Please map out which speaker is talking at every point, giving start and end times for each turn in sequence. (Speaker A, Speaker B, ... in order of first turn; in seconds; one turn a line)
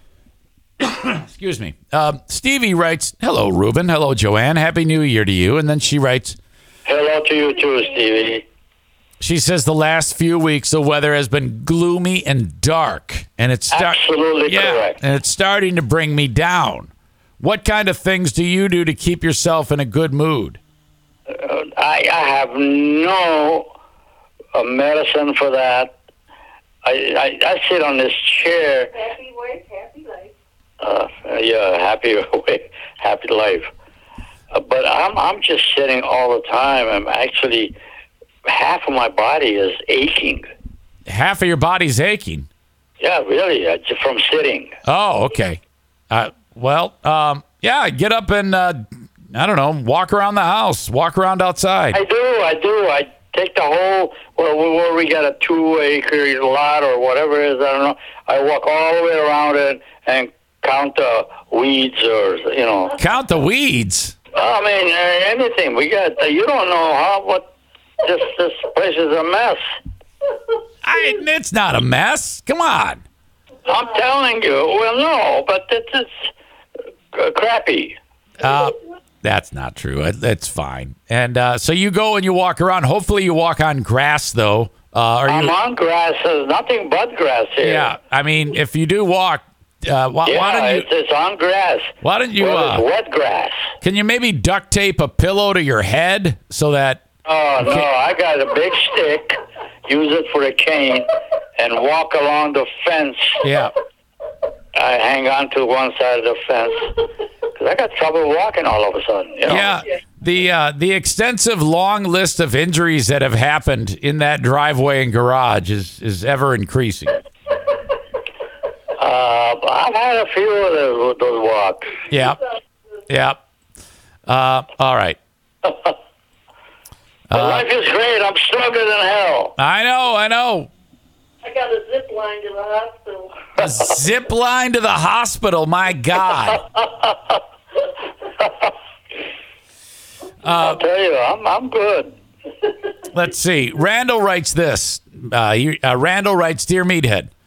Speaker A: 0.8-6.4
Speaker B: 6.9-8.4
Speaker A: 9.2-20.6
Speaker B: 13.7-15.0
Speaker B: 21.3-23.7
Speaker B: 24.5-25.9
Speaker B: 26.8-28.9
Speaker C: 29.0-30.3
Speaker B: 30.8-33.7
Speaker B: 34.5-37.7
Speaker B: 38.5-40.5
Speaker A: 41.1-42.5
Speaker B: 43.0-44.8
Speaker A: 44.9-45.6
Speaker A: 46.1-52.0
Speaker B: 51.9-63.0
Speaker A: 63.0-64.1
Speaker B: 64.3-69.6
Speaker A: 70.8-73.0
Speaker B: 73.7-76.3
Speaker B: 77.1-78.0
Speaker A: 78.4-85.5
Speaker B: 85.3-87.9
Speaker A: 87.6-90.9
Speaker B: 90.2-93.7
Speaker A: 92.0-92.8
Speaker A: 93.8-97.0
Speaker B: 97.2-103.4
Speaker A: 103.4-103.7
Speaker B: 104.8-106.9
Speaker B: 107.5-109.7
Speaker A: 109.5-117.2
Speaker B: 119.0-122.0
Speaker A: 122.1-122.4
Speaker A: 123.1-123.4
Speaker A: 124.3-125.2
Speaker B: 125.6-125.9
Speaker A: 127.3-127.7
Speaker B: 127.3-129.5
Speaker A: 129.6-130.7
Speaker C: 131.4-133.5
Speaker A: 133.6-136.6
Speaker B: 136.9-137.3
Speaker B: 138.4-138.7
Speaker A: 140.4-140.8
Speaker B: 140.5-142.2
Speaker A: 143.1-147.3